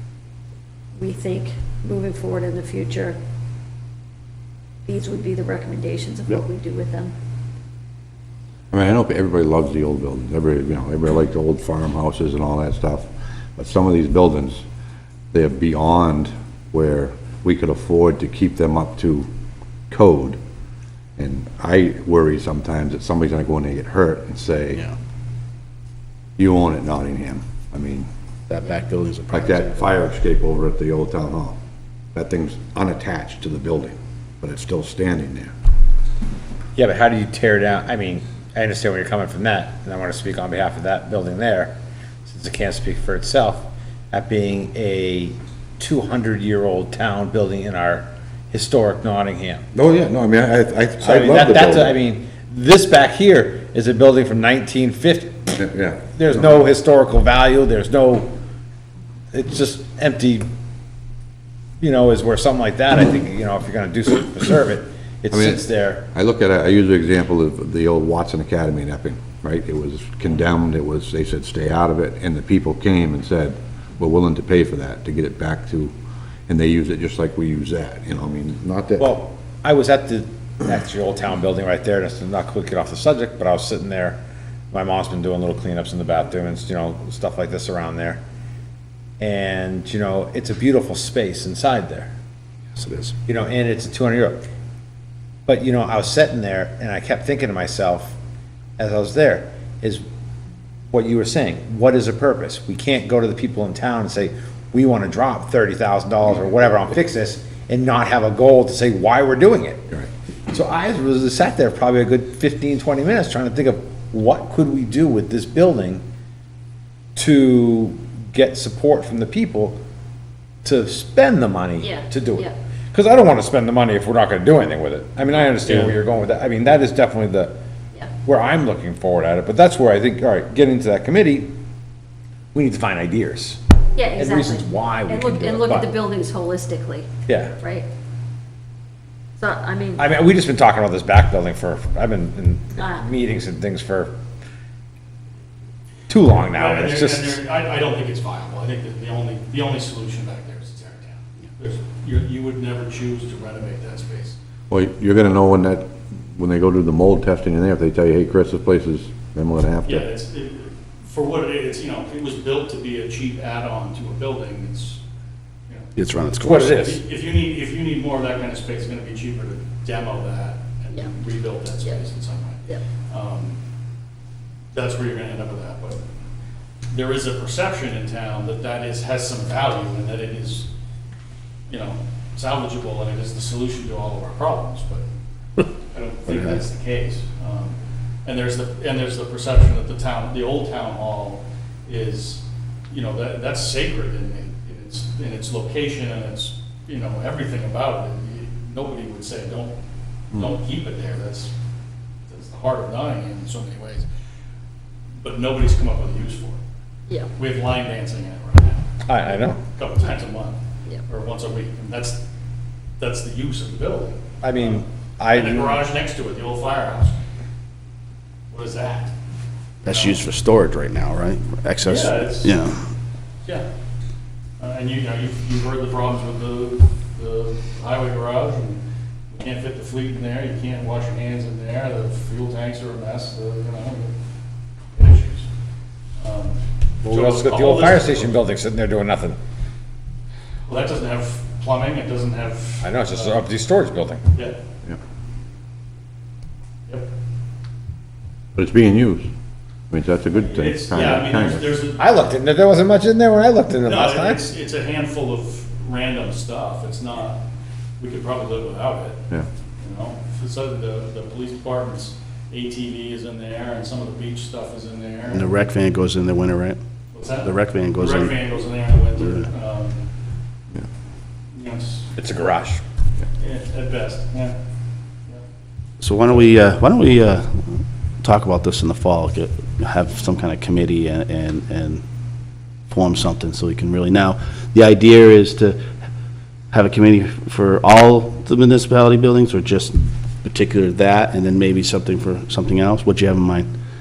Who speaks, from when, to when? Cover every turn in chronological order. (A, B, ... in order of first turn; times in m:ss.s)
0:01.0-0:03.2 A
0:04.9-0:07.1 A
0:08.7-0:14.6 B
0:15.3-0:19.3 B
0:19.9-0:20.4 B
0:21.2-0:24.9 B
0:26.4-0:28.1 B
0:28.5-0:29.8 C
0:29.3-0:31.6 B
0:32.2-0:35.5 B
0:36.8-0:49.7 D
0:49.7-0:52.0 B
0:51.0-0:55.5 D
0:55.6-0:56.2 B
0:56.1-0:58.3 D
0:59.3-1:00.4 D
1:01.8-1:06.0 D
1:05.3-1:15.9 B
1:16.5-1:19.1 B
1:19.0-1:24.2 D
1:24.7-1:28.2 D
1:29.2-1:32.1 D
1:32.8-1:33.2 C
1:33.3-1:34.5 D
1:35.5-1:38.2 D
1:38.8-1:40.0 D
1:40.9-1:50.0 D
1:50.5-1:56.0 D
1:57.2-1:59.8 D
2:00.6-2:07.6 D
2:01.8-2:02.6 A
2:08.3-2:11.5 D
2:12.5-2:13.6 D
2:14.0-2:17.9 A
2:14.2-2:15.9 D
2:17.3-2:17.6 D
2:19.4-2:20.1 A
2:20.0-2:24.1 D
2:22.8-2:23.1 A
2:26.1-2:27.4 D
2:26.5-2:34.4 E
2:34.7-2:40.1 B
2:39.8-2:45.0 E
2:46.0-2:46.9 C
2:46.4-2:47.0 D
2:46.5-2:53.6 E
2:54.7-2:56.0 E
2:56.9-3:00.7 E
3:01.7-3:05.0 E
3:05.9-3:19.7 E
3:20.3-3:21.5 E
3:22.3-3:24.1 E
3:25.2-3:26.6 E
3:27.4-3:30.6 E
3:29.1-3:29.6 D
3:31.1-3:32.2 E
3:33.0-3:37.2 E
3:34.4-3:35.9 D
3:38.5-3:39.1 E
3:39.8-3:42.8 C
3:39.8-3:40.2 E
3:41.8-3:42.6 E
3:44.6-3:54.1 E
3:55.0-3:55.5 E
3:56.2-3:58.4 E
3:57.1-3:59.4 D
4:00.7-4:03.4 E
4:02.8-4:04.3 D
4:08.6-4:09.3 B
4:09.9-4:11.7 B
4:10.4-4:12.2 E
4:12.0-4:14.5 D
4:13.8-4:17.4 E
4:18.0-4:19.2 E
4:19.8-4:25.6 E
4:25.3-4:26.8 C
4:27.1-4:30.1 E
4:27.4-4:28.4 C
4:31.5-4:32.1 E
4:32.2-4:32.8 D
4:33.4-4:34.6 E
4:36.0-4:42.0 C
4:42.9-4:45.8 C
4:46.7-4:53.7 C